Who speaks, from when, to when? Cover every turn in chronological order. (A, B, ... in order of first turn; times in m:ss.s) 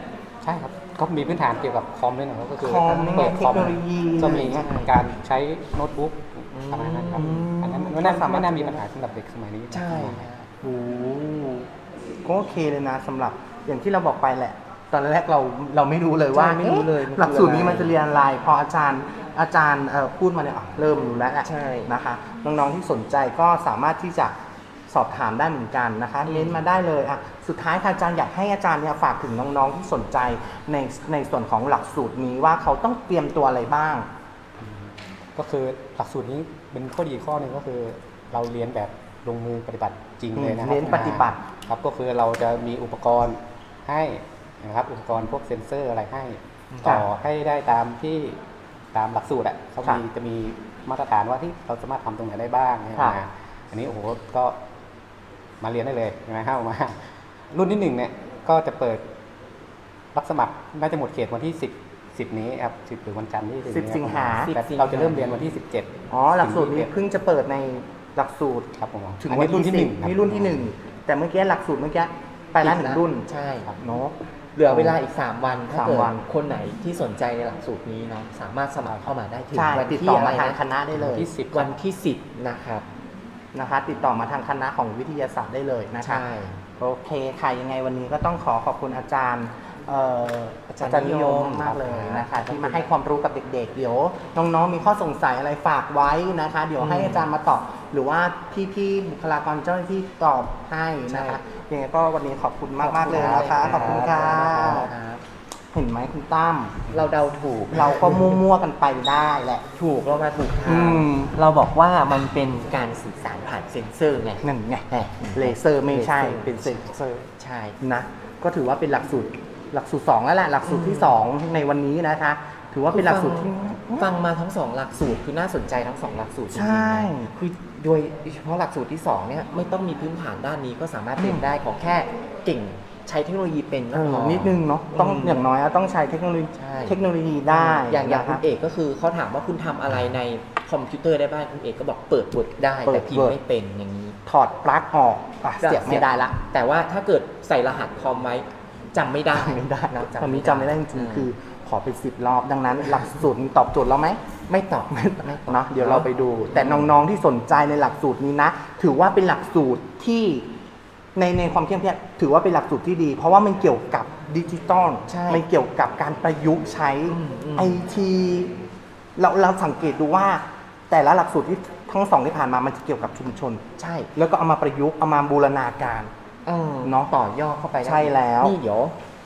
0:00.4-0:10.3 A
0:02.6-0:04.6 B
0:03.1-0:03.7 C
0:04.4-0:05.0 C
0:06.5-0:07.4 C
0:07.1-0:08.8 B
0:09.7-0:10.5 C
0:10.6-0:11.7 B
0:12.2-0:24.3 B
0:16.3-0:17.9 C
0:21.4-0:21.9 C
0:24.9-0:34.1 B
0:26.2-0:26.6 C
0:34.6-0:48.4 A
0:40.3-0:41.4 B
0:46.8-0:47.1 B
0:48.9-0:54.6 A
0:55.6-0:59.0 A
1:00.1-1:06.9 A
1:03.7-1:04.5 B
1:04.4-1:05.4 C
1:06.1-1:13.2 B
1:08.8-1:10.7 A
1:12.6-1:13.7 C
1:13.8-1:14.1 B
1:14.6-1:20.6 C
1:14.7-1:15.0 B
1:15.7-1:16.2 B
1:18.8-1:19.1 A
1:19.5-1:21.3 B
1:20.9-1:21.7 A
1:21.5-1:22.8 C
1:23.5-1:26.2 B
1:26.0-1:26.6 C
1:26.8-1:44.9 B
1:30.7-1:32.9 C
1:36.8-1:37.3 C
1:41.1-1:41.4 C
1:42.8-1:45.2 C
1:45.7-1:46.9 B
1:46.9-1:48.4 C
1:47.7-1:49.6 B
1:49.7-1:57.8 C
1:50.6-1:51.3 B
1:54.4-1:57.3 B
1:57.8-2:04.1 B
2:00.6-2:01.2 C
2:02.9-2:15.4 C
2:06.5-2:07.3 B
2:11.2-2:11.4 B
2:13.9-2:18.4 B
2:16.5-2:24.2 C
2:22.8-2:23.4 B
2:24.2-2:26.4 B
2:25.6-2:31.3 C
2:29.3-2:34.2 B
2:34.5-2:36.9 C
2:34.9-2:40.5 B
2:41.1-2:48.5 B
2:45.1-2:45.4 C
2:47.1-2:47.8 C
2:49.2-2:53.6 B
2:53.8-2:54.1 C
2:54.1-2:56.1 B
2:56.4-2:59.0 C
2:56.8-2:57.1 B
2:57.8-2:58.6 B